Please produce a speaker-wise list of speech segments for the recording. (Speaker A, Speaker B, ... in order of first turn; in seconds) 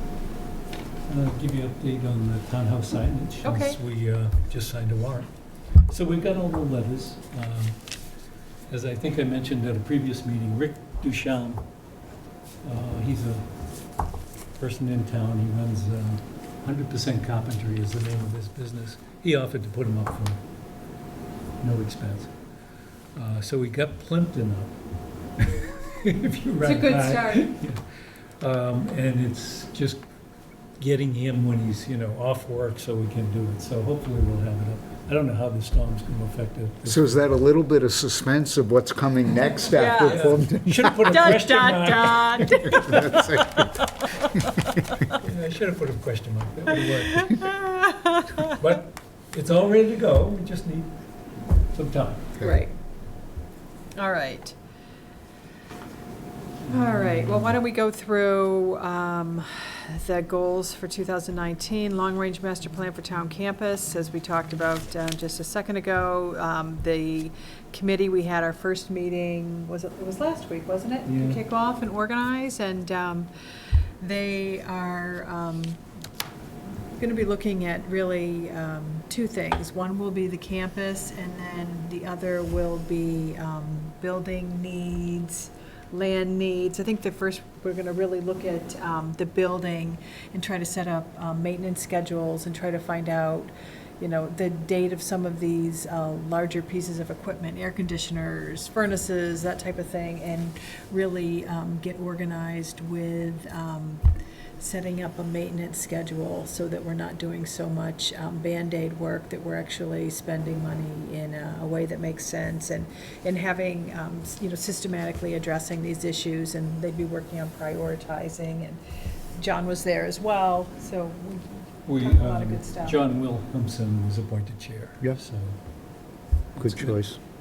Speaker A: 1.1-7.8, 8.7-11.7, 12.6-13.5, 14.6-20.4, 21.6-22.3, 23.1-24.8, 25.4-27.8, 28.4-30.0, 30.8-37.2, 40.0-43.2, 45.1-47.9, 48.4-50.9, 51.7-52.3, 56.6-57.5, 71.1-71.4, 121.9-125.6, 126.6-127.0
Speaker B: 3.4-3.8, 26.6-27.6, 39.6-44.3, 47.2-48.4, 52.4-52.7, 54.0-54.5, 56.7-73.3, 74.0-75.8, 77.0-104.0, 104.6-118.8, 119.4-123.0
Speaker C: 36.9-41.0, 42.8-43.8, 126.6-127.2